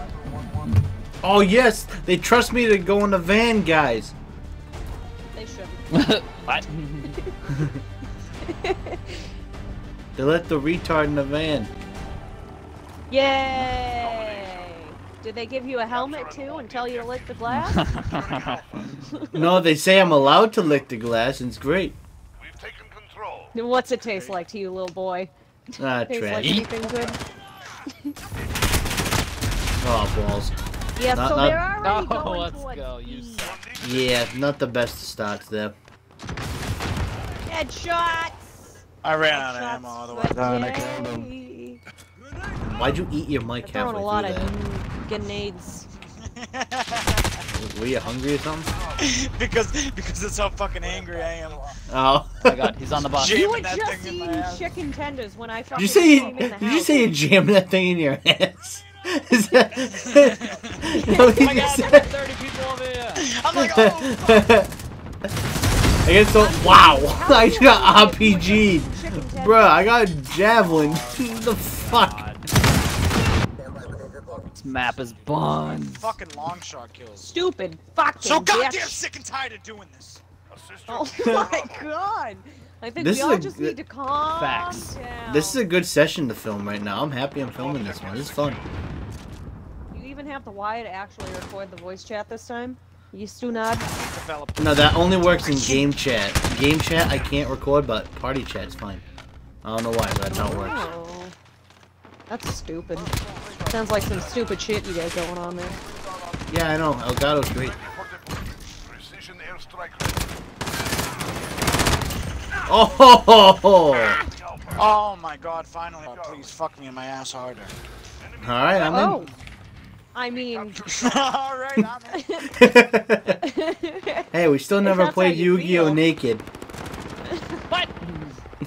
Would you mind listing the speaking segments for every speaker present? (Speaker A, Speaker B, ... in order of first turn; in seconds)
Speaker A: 0.4-0.7, 5.9-7.1, 17.5-19.1, 26.4-27.1, 31.8-33.6, 52.4-53.4, 61.0-63.3, 71.8-72.5, 74.5-76.2, 84.3-84.9, 127.7-128.4
Speaker B: 1.2-4.1, 7.5-7.8, 10.2-11.7, 19.3-22.0, 25.8-26.6, 29.8-30.5, 31.1-31.6, 33.8-35.7, 42.6-44.5, 47.5-48.7, 51.9-52.7, 55.7-62.1, 63.5-64.7, 66.0-72.2, 83.0-83.8, 85.3-88.6, 94.6-99.0, 99.6-100.9, 106.5-107.8, 112.7-114.2, 118.4-119.2, 122.5-123.4, 124.3-126.4
Speaker C: 5.3-5.8, 7.0-7.4, 8.4-9.3, 13.1-17.8, 19.0-19.6, 23.5-25.3, 26.0-27.2, 30.9-33.6, 37.5-41.8, 43.6-45.9, 53.3-57.1, 66.3-69.9, 77.2-79.0, 80.9-85.7, 89.9-93.8, 100.3-101.3, 102.3-103.1, 103.7-105.8, 118.9-119.3, 120.1-120.8, 122.1-122.6, 123.2-124.3, 124.8-126.0, 127.3-127.6
Speaker D: 14.0-14.7, 15.9-17.4, 17.9-18.9, 22.4-23.6, 33.4-34.2, 80.5-81.8, 87.5-88.7, 102.9-104.7, 105.3-106.5, 107.7-110.2, 113.9-114.9, 116.1-116.4, 118.2-119.0, 120.3-121.4
Speaker E: 39.0-41.3, 46.2-47.4, 49.0-51.8, 53.0-54.7, 55.7-56.5, 60.0-60.9, 63.1-64.5, 70.5-71.9, 74.8-77.3, 78.2-80.2, 93.8-95.9, 114.7-117.8, 120.8-122.3